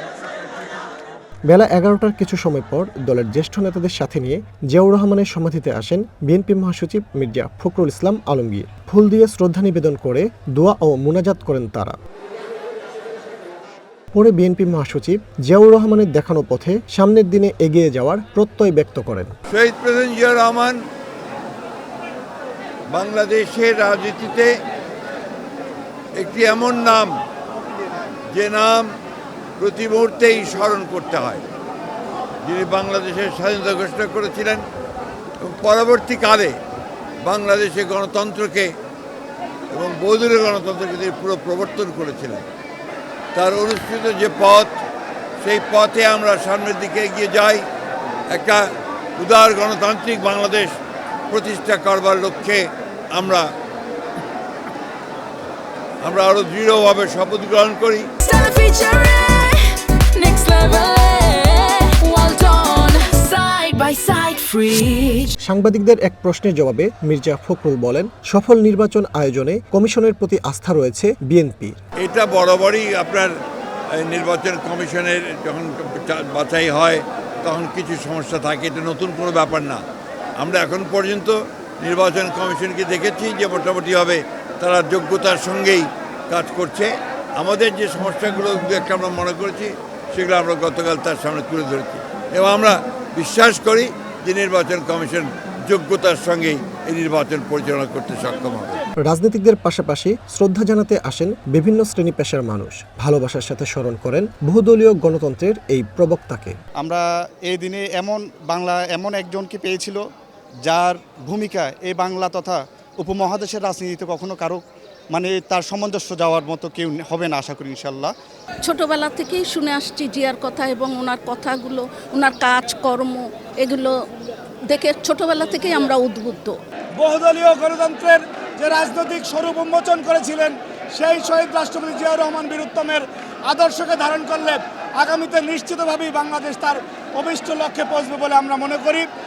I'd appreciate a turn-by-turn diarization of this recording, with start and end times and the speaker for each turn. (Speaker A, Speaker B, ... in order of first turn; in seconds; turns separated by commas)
Speaker A: 1.5-12.0, Speaker A: 14.1-19.3, Speaker B: 19.5-20.8, Speaker B: 22.9-24.5, Speaker B: 26.1-27.1, Speaker B: 28.3-28.9, Speaker B: 29.6-31.4, Speaker B: 32.4-34.6, Speaker B: 35.4-36.5, Speaker B: 37.2-38.7, Speaker B: 39.7-42.4, Speaker B: 43.3-44.8, Speaker B: 45.4-47.6, Speaker B: 48.3-48.6, Speaker B: 49.2-50.7, Speaker B: 51.3-53.5, Speaker B: 56.0-58.1, Speaker C: 58.2-65.3, Speaker A: 65.4-71.8, Speaker B: 72.0-73.3, Speaker B: 74.0-79.8, Speaker B: 80.4-98.8, Speaker A: 99.0-106.5, Speaker D: 106.8-110.0, Speaker D: 110.7-114.6, Speaker D: 115.1-118.1, Speaker E: 118.6-124.0, Speaker E: 124.7-126.5, Speaker F: 127.0-139.1